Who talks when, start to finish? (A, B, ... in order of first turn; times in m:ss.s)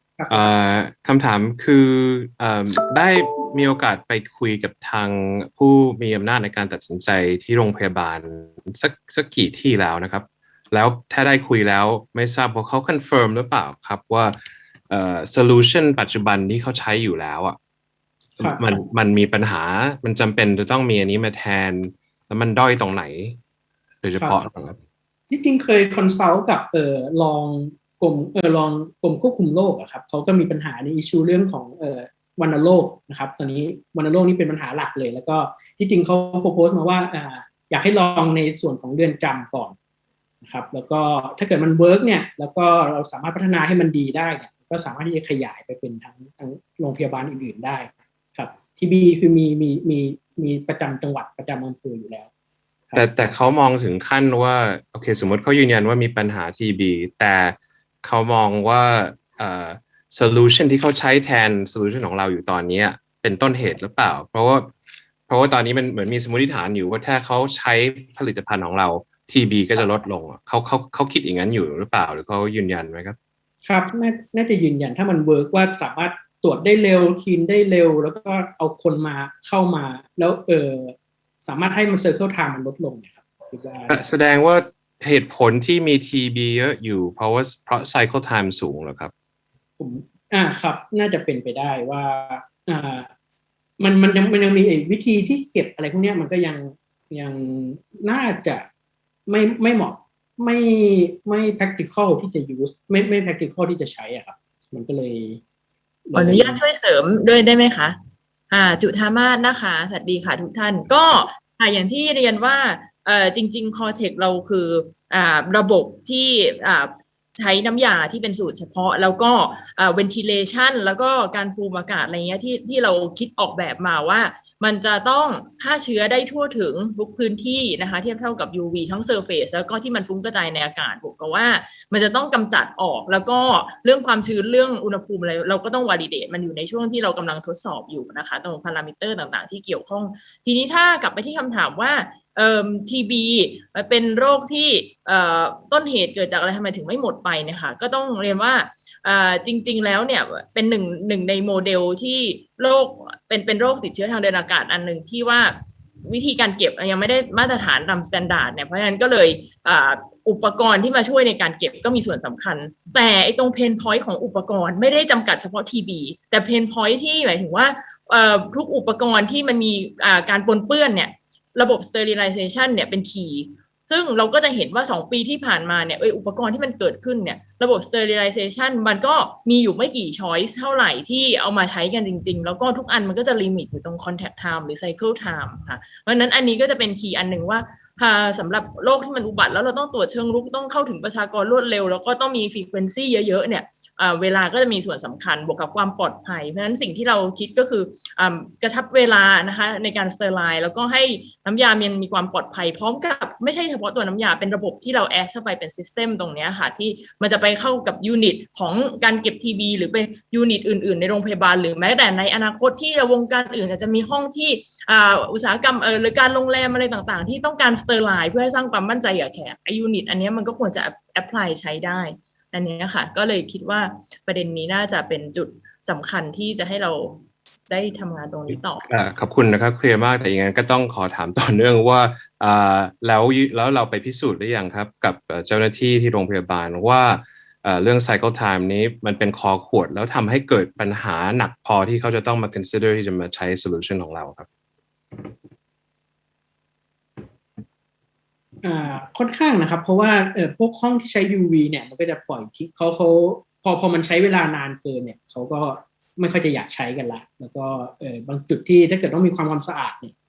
0:00.2-0:00.6 A
0:00.3-0:14.4 B
0:14.9-0:17.6 B
0:18.4-0:23.4 B
0:18.4-0:18.8 A
0:24.0-0:24.8 B
0:25.3-0:39.8 A
0:40.4-0:52.3 A
0:53.0-1:04.7 B
1:05.3-1:13.2 B
1:13.6-1:24.0 A
1:23.9-1:29.1 B
1:29.8-1:33.1 A
1:33.8-1:38.7 A
1:39.3-1:45.4 A
1:46.1-1:46.6 A
1:46.2-1:48.0 C
1:48.5-3:48.9 C
3:48.6-4:04.5 B
4:08.6-4:20.2 A